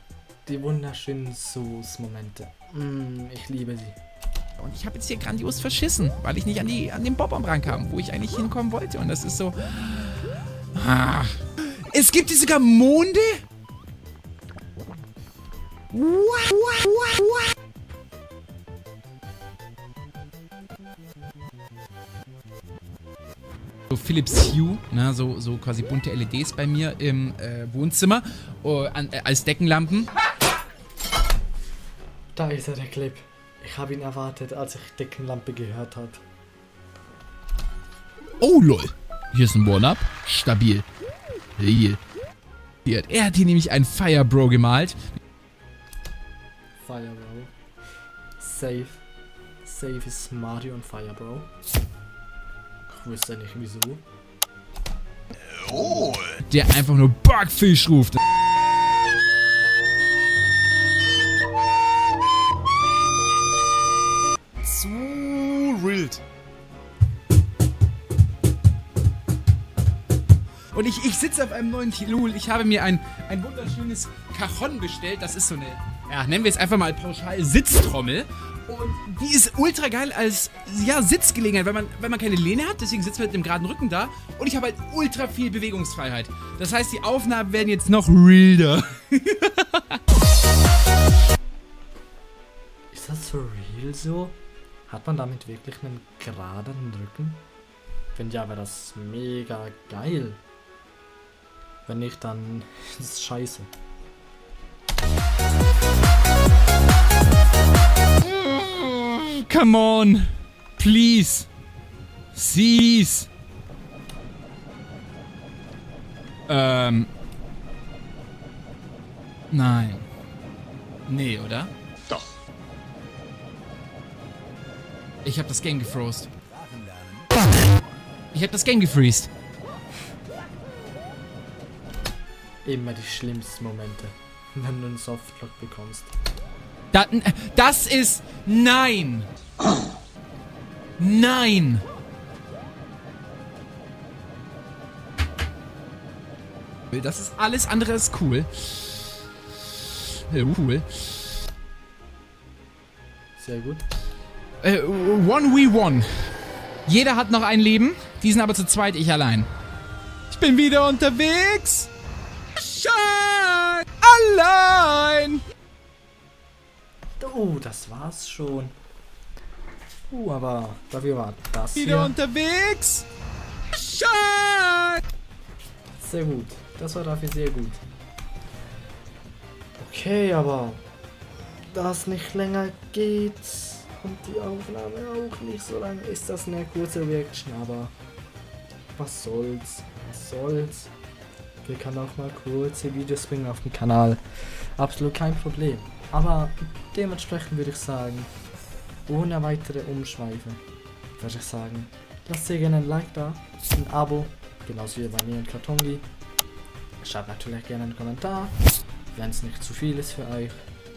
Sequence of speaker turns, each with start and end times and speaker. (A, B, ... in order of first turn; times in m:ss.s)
0:00.4-0:04.0 A
0:04.6-0:13.4 B
0:15.9-0:17.5 B
0:23.9-0:30.1 B
0:32.4-0:36.2 A
0:38.4-0:40.8 B
0:41.6-0:42.0 B
0:42.8-0:45.1 B
0:46.8-0:47.5 A
0:48.4-0:49.0 A
0:49.6-0:51.5 A
0:52.9-0:54.0 A
0:55.6-0:58.2 B
1:04.6-1:06.2 B
1:10.7-1:30.0 B
1:32.9-1:34.4 A
1:34.9-1:37.4 A
1:38.1-1:40.4 A
1:41.8-1:43.7 A
1:48.2-1:51.5 B
1:52.3-1:53.3 B
1:56.5-1:57.1 B
1:59.5-2:00.1 B
2:01.1-2:02.2 B
2:05.2-2:06.3 B
2:08.3-2:09.3 B
2:12.6-2:16.1 A
2:16.9-2:19.3 B
2:21.0-2:21.8 B
2:26.9-2:29.2 B
2:29.9-2:31.2 B
2:33.4-2:33.8 A
2:34.6-2:36.1 B
2:36.8-2:39.5 B
2:40.3-2:41.9 B
2:42.6-2:45.4 B
2:47.2-2:48.7 A
2:50.1-2:52.2 A
2:51.7-2:53.0 B
2:53.7-2:55.0 B
2:56.0-2:57.8 A
2:59.8-3:00.8 A
3:01.7-3:07.9 A
3:08.9-3:10.9 A
3:11.6-3:18.3 A
3:19.1-3:20.6 A
3:21.2-3:26.0 A
3:27.0-3:28.5 A
3:29.1-3:30.6 A